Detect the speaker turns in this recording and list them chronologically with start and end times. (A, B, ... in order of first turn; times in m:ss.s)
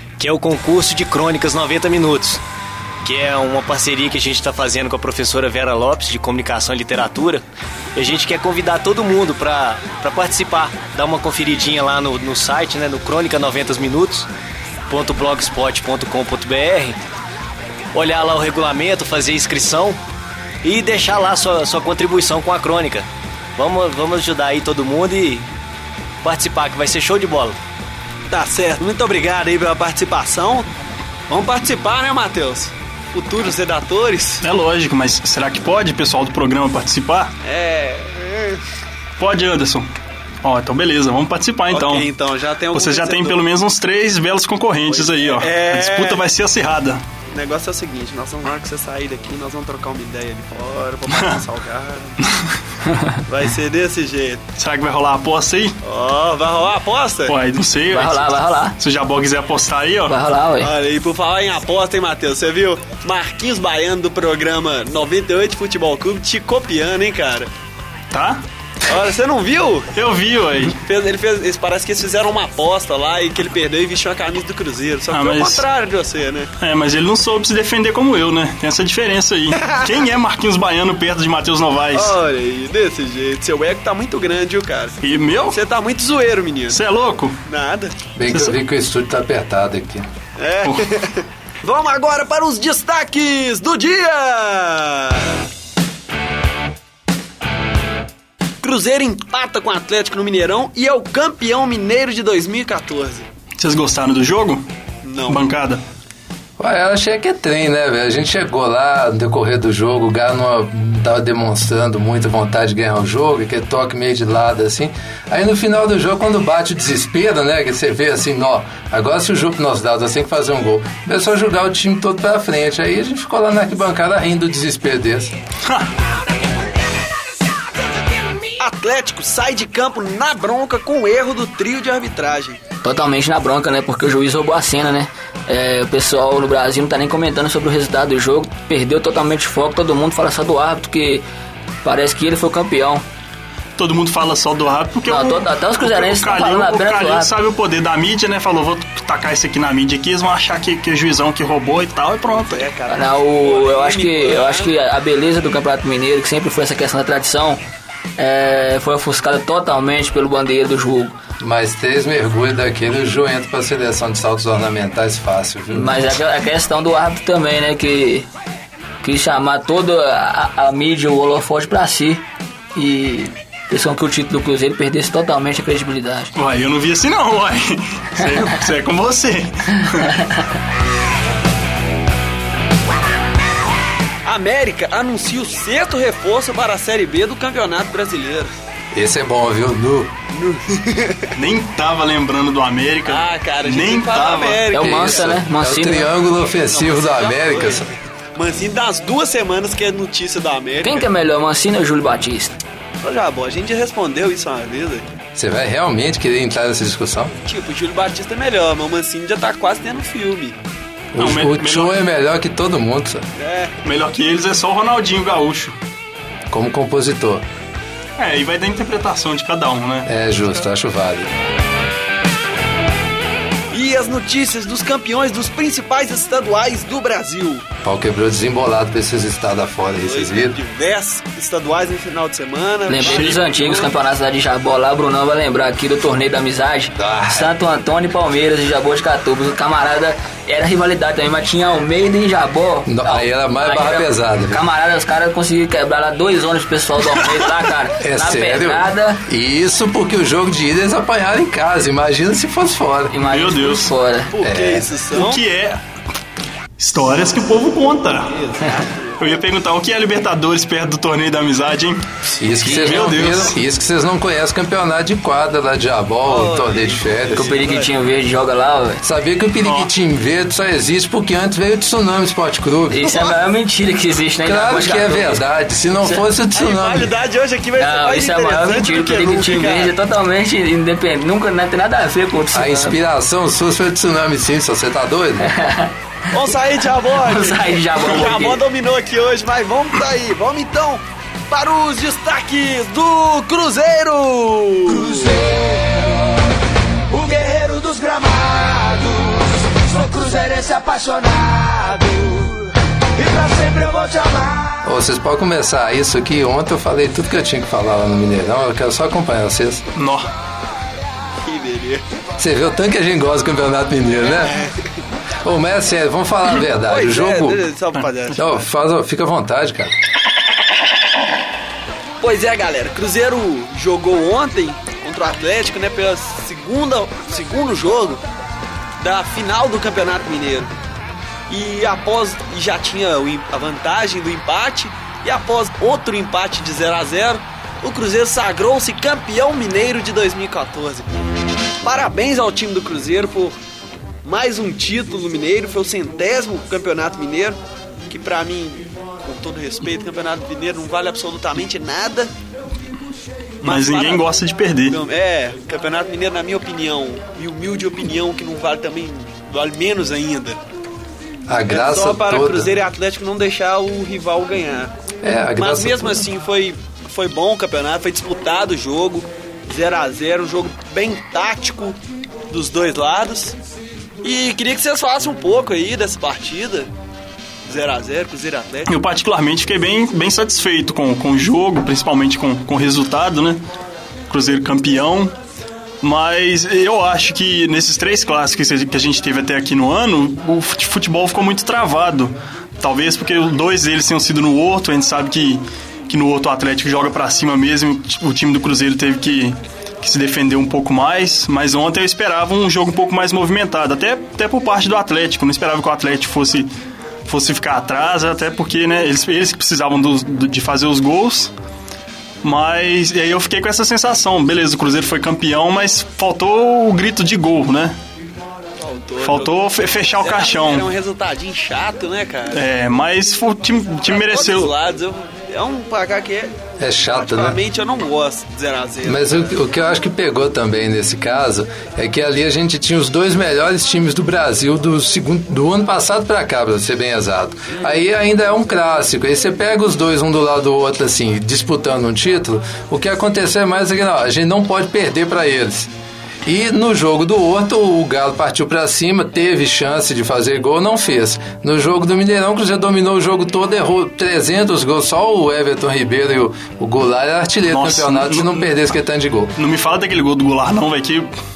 0:00.2-0:02.4 A
0:03.0-0:07.4 A
0:08.0-0:14.3 A
0:14.9-0:17.0 A
0:17.9-0:20.0 A
0:20.6-0:25.5 A
0:26.2-0:27.6 A
0:28.3-0:30.7 B
0:31.3-0:34.4 B
0:34.4-0:37.3 C
0:37.4-0:38.6 B
0:39.2-0:39.9 C
0:40.4-0:42.1 C
0:41.7-0:43.4 B
0:42.7-0:47.0 C
0:44.9-0:46.2 B
0:47.3-0:52.2 B
0:51.1-0:51.4 C
0:53.3-0:54.4 B
0:54.6-0:55.8 C
0:55.8-0:57.3 B
0:57.3-1:00.2 C
0:57.9-0:58.8 D
1:00.1-1:00.7 D
1:00.6-1:07.5 B
1:08.1-1:08.4 C
1:08.8-1:09.9 B
1:09.9-1:10.8 C
1:10.7-1:16.5 B
1:15.1-1:15.6 C
1:16.6-1:22.2 C
1:21.9-1:25.0 B
1:25.0-1:25.6 C
1:25.5-1:26.8 B
1:26.7-1:27.4 C
1:27.4-1:28.0 B
1:28.2-1:30.1 E
1:28.3-1:28.6 C
1:30.4-1:35.4 B
1:38.6-1:43.3 B
1:43.6-1:44.6 C
1:45.0-1:45.4 B
1:45.3-1:45.8 C
1:46.6-2:05.3 E
2:08.6-2:12.6 B
2:12.8-2:21.2 D
2:21.8-2:23.0 D
2:23.8-2:32.7 C
2:25.0-2:27.3 D
2:32.3-2:34.7 B
2:32.9-2:37.6 D
2:38.2-2:41.2 D
2:41.4-2:46.1 E
2:45.7-2:48.3 D
2:49.0-2:52.2 D
2:52.7-2:56.3 D
2:56.3-3:00.2 C
3:04.2-3:08.5 B
3:08.9-3:10.1 E
3:10.3-3:11.3 B
3:11.3-3:14.6 C
3:13.1-3:15.4 B
3:14.7-3:16.1 D
3:14.7-3:17.9 E
3:16.7-3:21.1 B
3:20.8-3:22.6 D
3:23.0-3:25.0 B
3:25.3-3:27.3 E
3:27.4-3:30.6 B
3:31.1-3:33.3 E
3:31.2-3:32.0 C
3:33.4-3:33.8 B
3:33.8-3:35.7 C
3:36.5-3:37.4 E
3:38.2-3:40.1 C
3:40.0-3:41.3 E
3:43.7-3:47.6 B
3:47.8-3:50.6 E
3:50.0-3:54.0 B
3:52.9-4:09.2 D
3:52.9-3:53.4 C
3:57.0-3:57.5 E
4:02.8-4:04.6 E
4:07.2-4:07.5 C
4:08.0-4:13.2 E
4:13.1-4:14.3 D
4:13.2-4:13.9 C
4:14.3-4:15.4 B
4:14.4-4:14.9 E
4:15.1-4:15.8 C
4:16.8-4:18.4 C
4:18.3-4:19.2 B
4:19.2-4:22.1 C
4:22.4-4:27.6 E
4:22.6-4:23.6 C
4:26.2-4:27.9 B
4:27.3-4:29.0 D
4:29.0-4:33.4 E
4:29.6-4:29.9 C
4:32.9-4:35.4 D
4:34.4-4:37.1 E
4:36.5-4:39.9 B
4:37.8-4:43.0 D
4:42.5-4:45.5 E
4:45.4-4:45.9 D
4:46.3-4:55.3 B
4:47.1-4:48.6 D
4:54.9-4:56.4 F
4:57.1-5:04.8 F
5:04.8-5:09.8 E
5:10.0-5:10.3 C
5:11.4-5:12.0 B
5:12.4-5:14.6 E
5:15.4-5:17.6 E
5:16.9-5:18.6 B
5:18.3-5:19.9 E
5:22.2-5:28.2 B
5:29.0-5:30.7 B
5:31.5-5:41.1 B
5:41.8-5:43.6 B
5:44.2-5:52.3 B
5:53.6-5:55.0 C
5:53.6-5:54.2 B
5:54.9-6:00.6 B
6:01.5-6:02.7 E
6:01.7-6:04.9 B
6:05.2-6:06.3 E
6:05.6-6:12.0 B
6:12.5-6:13.6 B
6:14.2-6:16.9 B
6:17.7-6:18.9 B
6:18.9-6:23.6 C
6:24.3-6:25.3 C
6:26.0-6:46.7 C
6:47.2-6:51.5 C
6:52.4-6:58.0 C
6:58.8-6:59.6 B
6:59.2-7:00.9 C
7:00.2-7:02.6 B
7:02.5-7:04.7 C
7:04.0-7:06.5 B
7:06.8-7:07.6 E
7:07.1-7:09.5 B
7:09.0-7:25.9 E
7:26.4-7:39.5 E
7:37.7-7:38.8 C
7:39.6-7:41.3 C